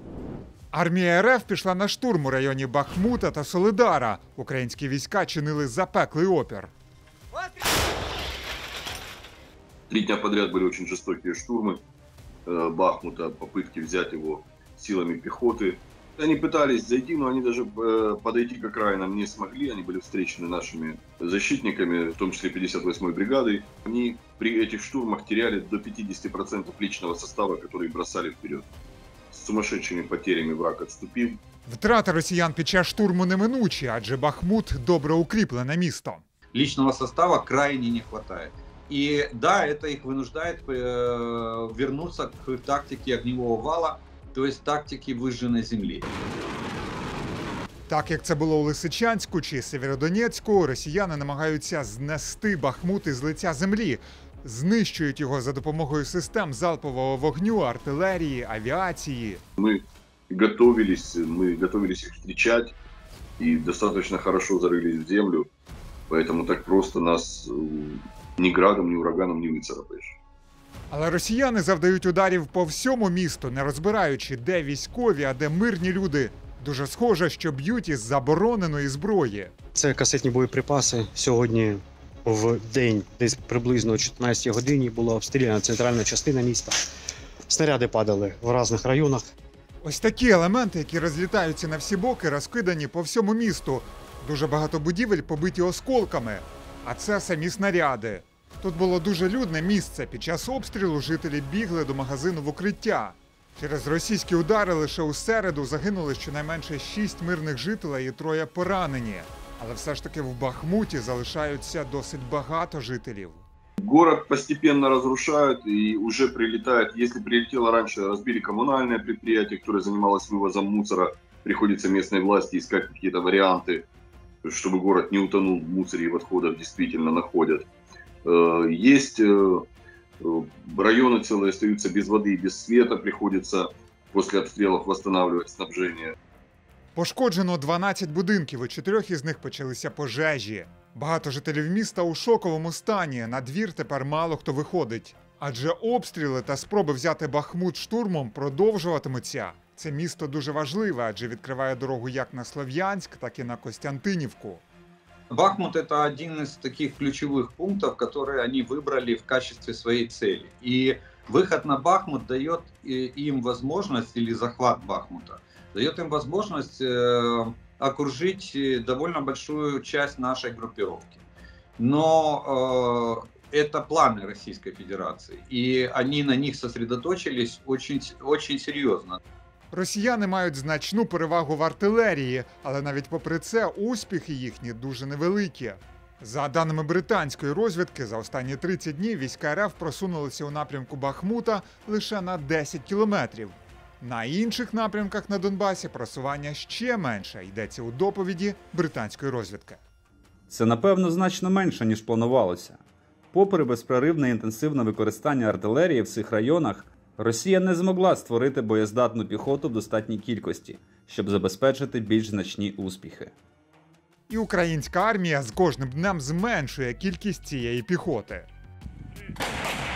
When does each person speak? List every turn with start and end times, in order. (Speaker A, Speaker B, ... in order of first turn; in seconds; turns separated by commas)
Speaker A: 0.7-6.7, Speaker B: 9.9-11.8, Speaker B: 12.5-28.7, Speaker B: 29.3-31.4, Speaker A: 31.7-36.2, Speaker C: 36.5-46.1, Speaker A: 47.9-59.4, Speaker B: 59.6-62.8, Speaker B: 63.4-65.5, Speaker B: 66.1-70.2, Speaker A: 70.9-79.5, Speaker D: 79.8-86.8, Speaker D: 87.5-89.2, Speaker A: 89.8-113.5, Speaker B: 113.8-123.9, Speaker B: 124.4-127.7, Speaker B: 128.2-129.7, Speaker B: 130.2-136.2, Speaker A: 137.0-154.6, Speaker C: 155.3-171.2, Speaker C: 171.8-179.2, Speaker A: 179.7-199.8, Speaker E: 200.5-202.8, Speaker E: 203.3-213.3, Speaker A: 214.3-218.5